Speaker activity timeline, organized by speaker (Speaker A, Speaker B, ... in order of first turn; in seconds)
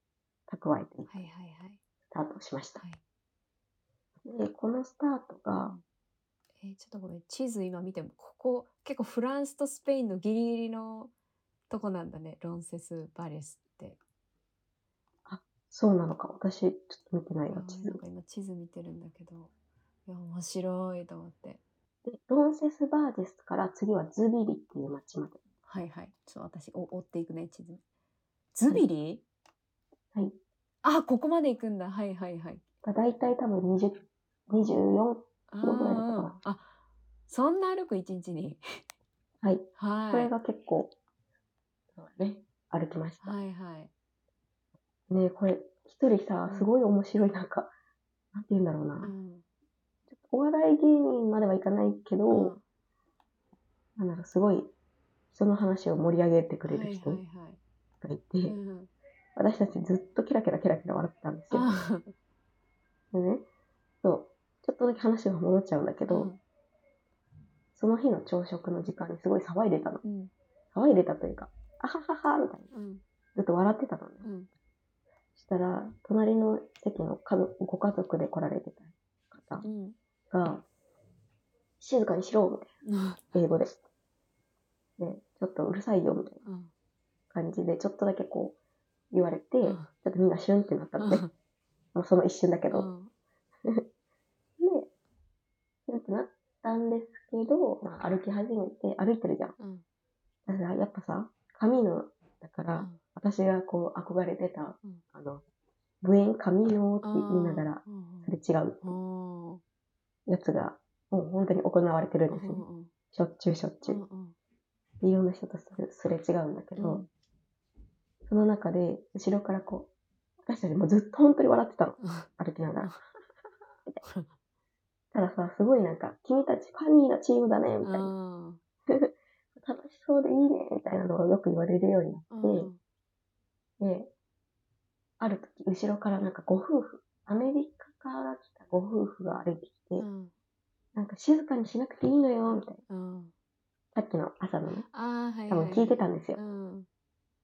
Speaker A: 0.5-1.2, 2.1-2.8, 4.2-5.8, 15.3-18.0, 22.1-25.4, 32.8-36.4, 39.4-40.9, 42.0-43.4, 45.1-47.7, 48.3-49.1, 50.1-52.5, 54.0-54.7, 55.3-57.2, 58.0-58.6, 59.4-61.7, 63.1-63.5, 64.0-66.3, 67.7-70.0, 70.7-72.7, 73.3-74.3, 75.3-79.7, 80.3-80.6, 81.8-82.7, 83.3-83.8, 85.0-86.4, 87.3-88.5, 89.1-91.2, 91.9-92.9, 94.6-94.9, 95.9-99.5, 100.5-105.4, 106.0-108.9, 110.3-114.0, 115.0-117.0, 118.2-119.9, 120.5-123.0, 125.1-128.1, 128.9-132.7, 133.8-134.1, 135.2-140.1, 140.9-142.8, 143.9-144.9, 145.5-146.4
Speaker B: 1.1-1.8, 6.6-11.1, 11.7-14.0, 17.5-19.5, 20.1-21.6, 25.6-27.8, 28.5-29.2, 30.8-32.6, 35.5-36.7, 37.3-38.6, 39.8-40.3, 43.2-43.9, 49.0-49.4, 52.3-52.6, 56.6-57.6, 58.5-58.9, 61.5-62.1, 66.1-66.4, 70.0-70.3, 72.7-73.0, 74.2-74.5, 79.6-80.0, 82.8-83.4, 86.4-86.7, 89.6-89.9, 91.0-91.3, 92.7-93.1, 99.6-99.8, 107.0-108.3, 108.8-109.6, 112.3-112.9, 113.8-114.3, 116.8-117.1, 122.0-122.3, 124.0-124.3, 127.8-128.6, 132.3-132.8, 140.0-140.3, 142.9-143.3, 144.8-146.9